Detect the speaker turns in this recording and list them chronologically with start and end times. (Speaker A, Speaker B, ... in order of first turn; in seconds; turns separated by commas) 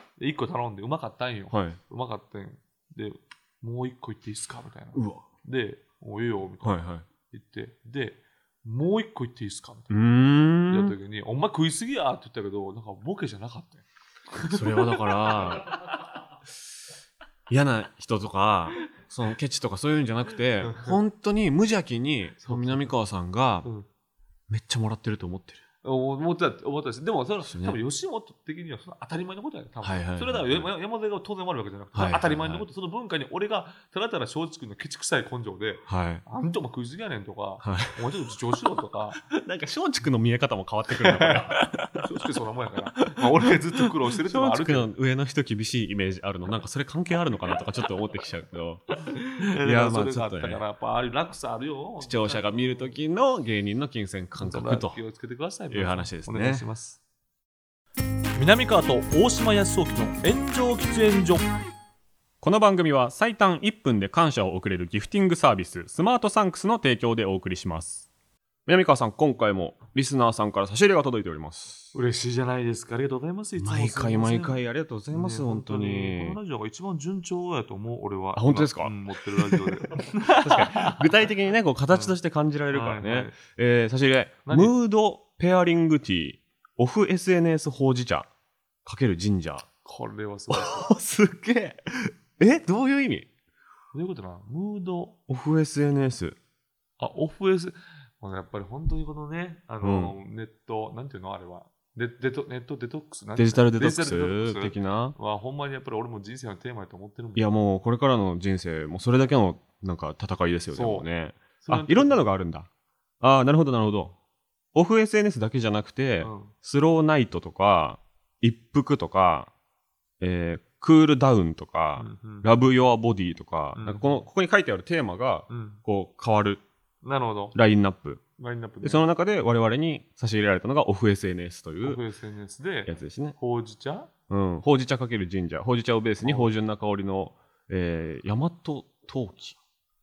Speaker A: 0.2-6.8, Speaker B: 1.5-1.8, Speaker B: 5.0-5.3, Speaker B: 6.6-7.1, Speaker A: 7.3-9.9, Speaker B: 9.9-11.0, Speaker A: 10.7-16.0, Speaker B: 14.4-15.8, Speaker B: 17.5-23.7, Speaker A: 20.6-21.0, Speaker A: 22.4-22.9, Speaker B: 24.5-25.6, Speaker A: 25.8-39.2, Speaker B: 27.4-27.8, Speaker B: 29.8-30.7, Speaker B: 31.9-32.6, Speaker B: 35.9-36.2, Speaker B: 37.6-38.0, Speaker B: 39.3-42.1, Speaker A: 40.9-44.9, Speaker B: 43.0-48.9, Speaker A: 49.1-53.0, Speaker B: 49.5-50.6, Speaker B: 52.0-55.0, Speaker A: 54.4-57.0, Speaker B: 55.7-56.6, Speaker A: 58.4-61.5, Speaker B: 62.4-68.1, Speaker B: 68.7-71.9, Speaker A: 71.9-81.0, Speaker B: 73.6-76.4, Speaker B: 78.3-88.3, Speaker A: 81.9-82.2, Speaker A: 82.7-83.4, Speaker A: 84.5-84.7, Speaker B: 88.8-89.7, Speaker A: 89.8-90.9, Speaker B: 90.5-93.3, Speaker A: 93.9-95.2, Speaker B: 95.3-96.4, Speaker A: 97.0-107.5, Speaker B: 99.8-100.2, Speaker B: 103.4-105.2, Speaker B: 107.4-112.7, Speaker A: 110.7-112.2, Speaker B: 113.2-114.2, Speaker B: 114.7-119.5, Speaker A: 116.2-116.5, Speaker B: 120.2-126.6, Speaker A: 122.0-122.5, Speaker A: 123.7-124.2, Speaker A: 125.5-125.8, Speaker A: 127.0-127.6, Speaker B: 127.5-128.2, Speaker A: 128.4-129.1, Speaker B: 128.8-132.0, Speaker A: 131.8-134.1, Speaker B: 132.9-133.4, Speaker B: 134.3-139.6, Speaker A: 136.2-136.5